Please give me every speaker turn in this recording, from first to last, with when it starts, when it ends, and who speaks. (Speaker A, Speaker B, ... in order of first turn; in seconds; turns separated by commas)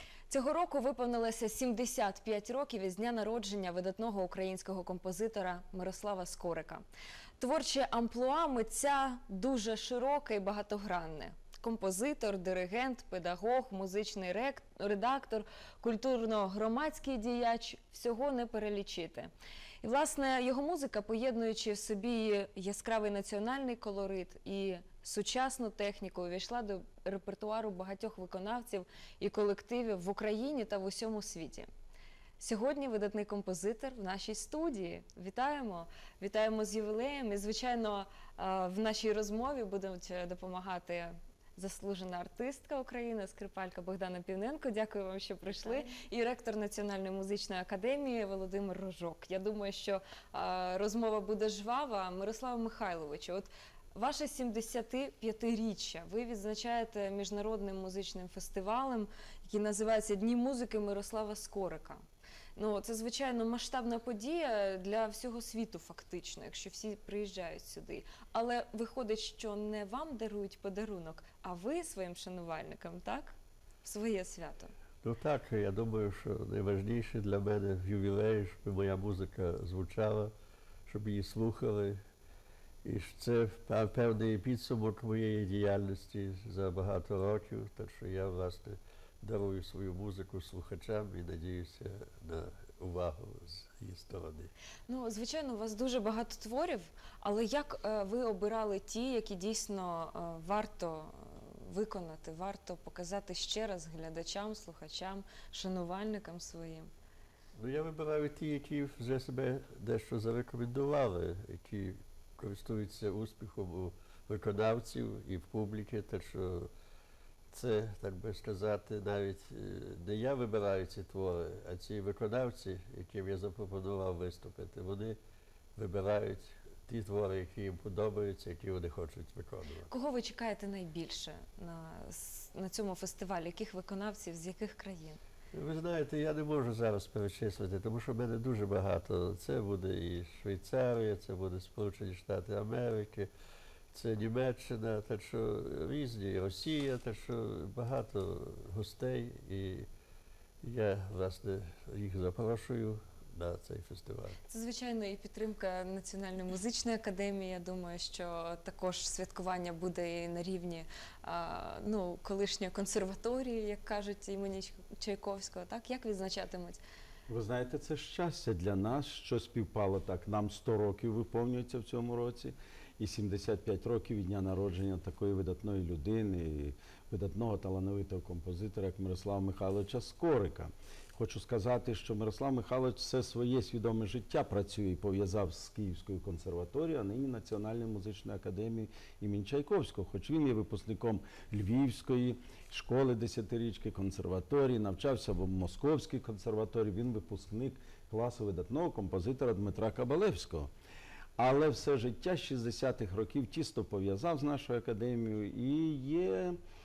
Speaker A: 0.3-6.8, Speaker A: 7.4-19.3, Speaker A: 19.8-31.7, Speaker A: 32.4-62.0, Speaker A: 62.5-74.7, Speaker B: 75.0-80.3, Speaker B: 80.9-82.0, Speaker B: 82.8-94.5, Speaker A: 94.9-106.9, Speaker B: 107.5-116.7, Speaker B: 117.5-125.2, Speaker B: 125.8-129.9, Speaker A: 129.9-135.2, Speaker B: 135.5-143.3, Speaker B: 143.9-149.9, Speaker B: 150.6-154.4, Speaker A: 154.5-166.8, Speaker C: 167.3-200.7, Speaker C: 201.4-206.6